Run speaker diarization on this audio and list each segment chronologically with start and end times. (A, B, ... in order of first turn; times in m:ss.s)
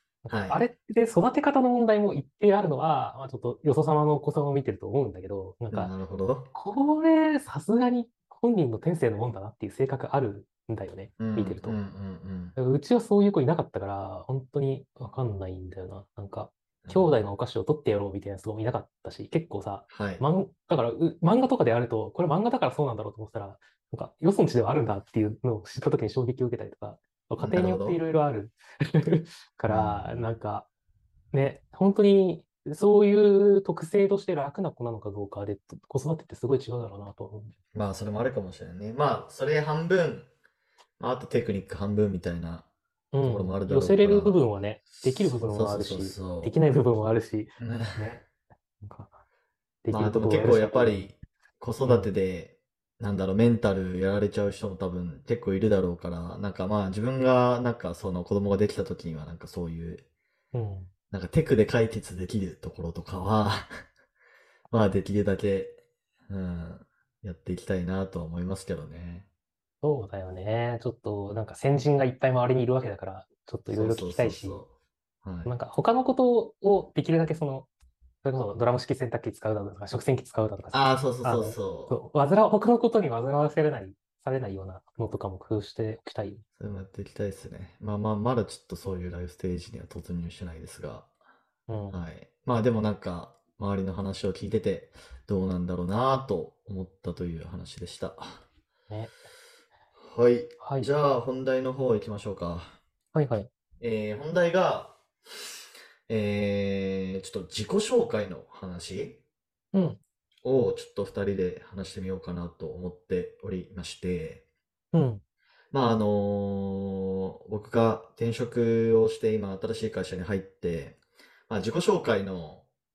0:00.2-0:05.9 A
0:00.3-0:00.6 B
0:05.7-0:06.5 B
0:06.5-0:11.8 A
0:11.2-0:12.6 B
0:12.6-0:30.7 A
0:16.8-0:17.1 B
0:19.9-0:20.2 B
0:27.4-0:28.0 B
0:29.7-0:30.3 B
0:31.3-0:37.5 A
0:37.7-0:40.3 B
0:41.0-0:42.7 B
0:43.1-0:48.3 A
0:43.2-0:44.4 B
0:45.2-0:46.5 B
0:47.6-0:48.1 B
0:48.8-0:49.2 A
0:49.8-0:51.0 A
0:49.9-1:00.0 B
0:51.8-0:52.1 A
1:00.5-1:00.9 A
1:01.1-1:03.7 B
1:04.7-1:09.3 B
1:09.8-1:14.6 A
1:13.7-1:14.7 B
1:15.2-1:15.5 B
1:15.4-1:17.7 A
1:18.2-1:26.4 A
1:20.7-1:22.0 B
1:26.6-1:31.1 B
1:31.7-1:32.0 A
1:31.9-1:38.4 B
1:40.0-1:42.8 B
1:40.6-1:40.9 A
1:43.1-1:43.5 A
1:43.8-1:45.6 B
1:46.1-1:49.2 B
1:49.7-1:50.0 A
1:50.4-1:54.4 B
1:54.9-1:55.2 A
1:55.7-2:02.6 B